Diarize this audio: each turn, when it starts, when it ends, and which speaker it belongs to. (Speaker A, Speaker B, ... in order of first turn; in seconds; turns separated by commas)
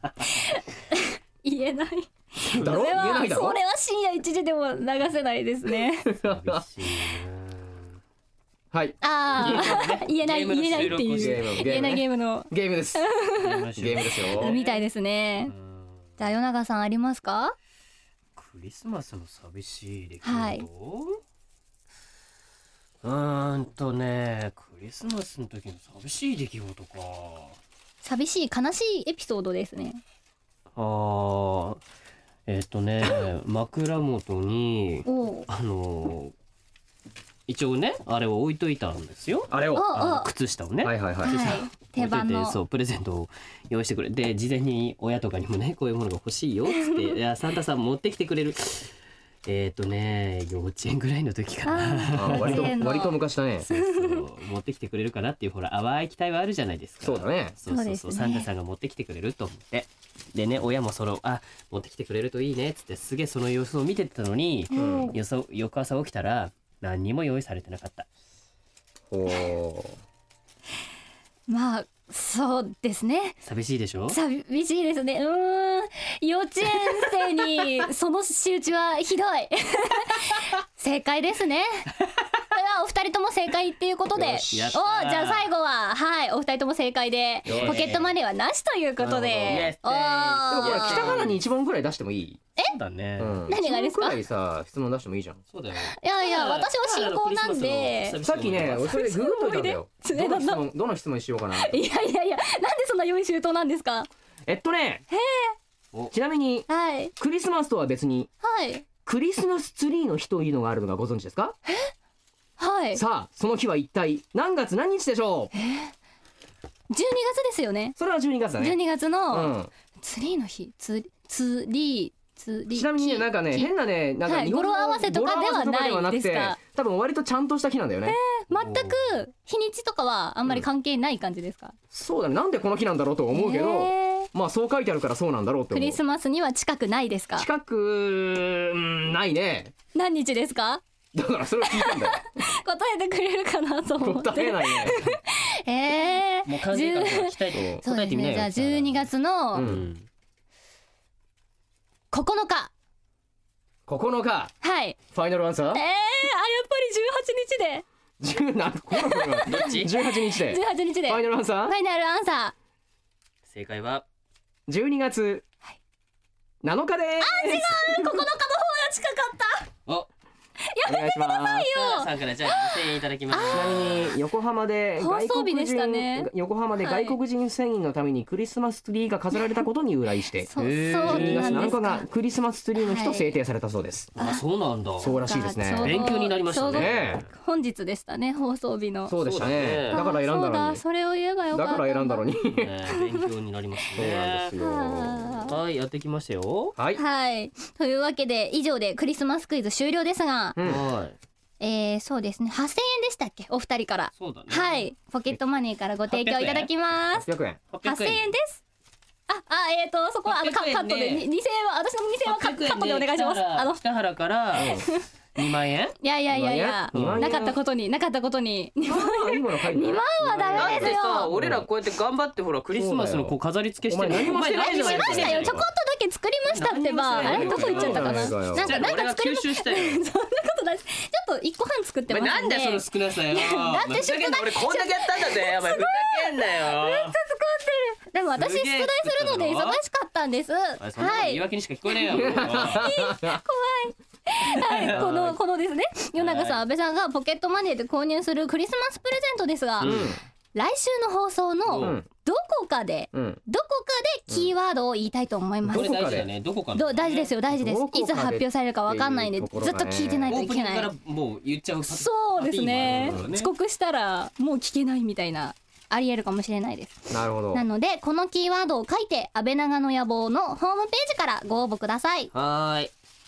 Speaker A: 0.5-6.1, Speaker B: 2.5-3.6, Speaker B: 6.1-6.6, Speaker C: 6.2-8.0, Speaker B: 8.7-9.0, Speaker A: 9.0-13.7, Speaker C: 9.3-12.0, Speaker B: 10.7-13.0, Speaker C: 13.4-14.8, Speaker B: 13.8-14.6, Speaker A: 14.3-15.5, Speaker C: 15.5-16.0, Speaker A: 16.2-17.6, Speaker C: 18.4-21.2, Speaker A: 20.2-20.7, Speaker C: 23.0-27.6, Speaker A: 28.0-30.0, Speaker C: 30.8-31.8, Speaker C: 32.5-36.3, Speaker A: 35.1-35.5, Speaker C: 37.5-48.9, Speaker B: 39.5-39.9, Speaker A: 39.7-40.3, Speaker B: 40.8-41.6, Speaker A: 41.2-42.6, Speaker A: 46.7-47.1, Speaker C: 49.5-52.9, Speaker A: 51.7-53.2, Speaker B: 52.1-53.7, Speaker C: 53.6-68.1, Speaker A: 53.7-54.2, Speaker B: 57.0-57.6, Speaker A: 57.7-58.5, Speaker A: 64.7-65.1, Speaker B: 64.8-65.1, Speaker B: 69.1-70.0, Speaker A: 71.5-73.4, Speaker C: 73.5-74.2, Speaker A: 74.1-81.9, Speaker A: 82.5-91.3, Speaker C: 84.2-85.5, Speaker B: 87.5-87.9, Speaker C: 87.5-88.1, Speaker C: 89.0-91.4, Speaker B: 90.5-92.4, Speaker C: 92.7-93.4, Speaker B: 93.2-95.4, Speaker A: 93.5-94.2, Speaker C: 95.5-98.9, Speaker A: 95.9-98.2, Speaker B: 98.2-101.8, Speaker A: 98.8-100.7, Speaker A: 101.5-104.1, Speaker B: 104.5-105.0, Speaker A: 105.1-105.5, Speaker B: 106.1-108.3, Speaker A: 106.7-107.1, Speaker A: 108.4-108.9, Speaker B: 109.0-111.6, Speaker A: 112.6-113.0, Speaker B: 112.9-115.5, Speaker A: 115.5-115.9, Speaker A: 116.9-118.0, Speaker B: 118.0-118.8, Speaker A: 118.6-123.7, Speaker B: 119.3-119.7, Speaker B: 122.7-128.2, Speaker A: 124.2-126.6, Speaker A: 128.1-131.8, Speaker C: 128.5-129.2, Speaker B: 131.9-136.0, Speaker A: 133.3-134.3, Speaker A: 135.7-137.5, Speaker B: 137.4-139.7, Speaker A: 139.9-140.8, Speaker B: 141.1-142.4, Speaker A: 141.7-149.7, Speaker B: 144.0-145.2, Speaker C: 146.4-150.1, Speaker B: 149.5-149.9, Speaker A: 152.1-152.7, Speaker B: 153.9-154.5, Speaker A: 154.6-155.0, Speaker B: 155.1-155.8, Speaker A: 155.7-157.8, Speaker B: 158.2-161.8, Speaker A: 158.9-162.5, Speaker C: 159.5-159.9, Speaker C: 163.5-164.1, Speaker B: 164.7-165.4, Speaker B: 166.6-168.2, Speaker A: 167.2-169.7, Speaker A: 170.6-174.1, Speaker B: 170.9-171.7, Speaker C: 171.7-174.1, Speaker B: 173.5-184.1, Speaker A: 175.0-177.2, Speaker A: 180.5-182.1, Speaker C: 180.6-181.7, Speaker A: 182.8-183.3, Speaker A: 184.2-184.4, Speaker C: 184.2-185.2, Speaker B: 185.0-186.1, Speaker A: 185.0-189.2, Speaker C: 185.8-187.3, Speaker B: 186.7-187.2, Speaker B: 189.1-190.8, Speaker C: 189.2-190.0, Speaker A: 189.9-192.4, Speaker B: 191.5-192.7, Speaker C: 192.6-194.5, Speaker A: 192.9-193.2, Speaker B: 194.0-195.5, Speaker A: 194.6-195.5, Speaker C: 195.4-196.8, Speaker B: 196.8-197.0, Speaker A: 197.0-200.6, Speaker B: 200.6-200.8, Speaker C: 200.6-201.2, Speaker A: 201.6-207.3, Speaker C: 204.2-205.3, Speaker C: 206.1-206.7, Speaker B: 207.2-207.6, Speaker C: 207.7-208.3, Speaker A: 207.8-208.6, Speaker A: 209.3-213.8, Speaker C: 210.2-211.3, Speaker C: 212.2-215.9, Speaker B: 214.6-214.9, Speaker A: 214.6-215.0, Speaker A: 216.0-221.3, Speaker B: 216.3-217.6, Speaker C: 216.9-217.3, Speaker B: 218.8-221.6, Speaker C: 220.2-225.6, Speaker B: 222.7-223.3, Speaker B: 223.9-225.7, Speaker A: 224.1-250.0, Speaker C: 226.5-230.0, Speaker B: 227.2-228.8, Speaker C: 232.1-237.2, Speaker C: 238.4-239.8, Speaker C: 240.8-242.9, Speaker B: 242.1-243.4, Speaker C: 244.4-245.4, Speaker C: 246.2-246.6, Speaker C: 249.8-250.2, Speaker B: 249.8-250.2, Speaker A: 250.6-256.1, Speaker C: 251.7-252.0, Speaker B: 251.8-252.1, Speaker B: 253.1-253.4, Speaker B: 255.7-256.3, Speaker C: 255.7-257.3, Speaker A: 256.8-260.9, Speaker B: 257.5-260.4, Speaker C: 260.3-263.5, Speaker A: 261.9-272.3, Speaker B: 262.8-263.2, Speaker B: 267.1-267.6, Speaker C: 272.3-272.9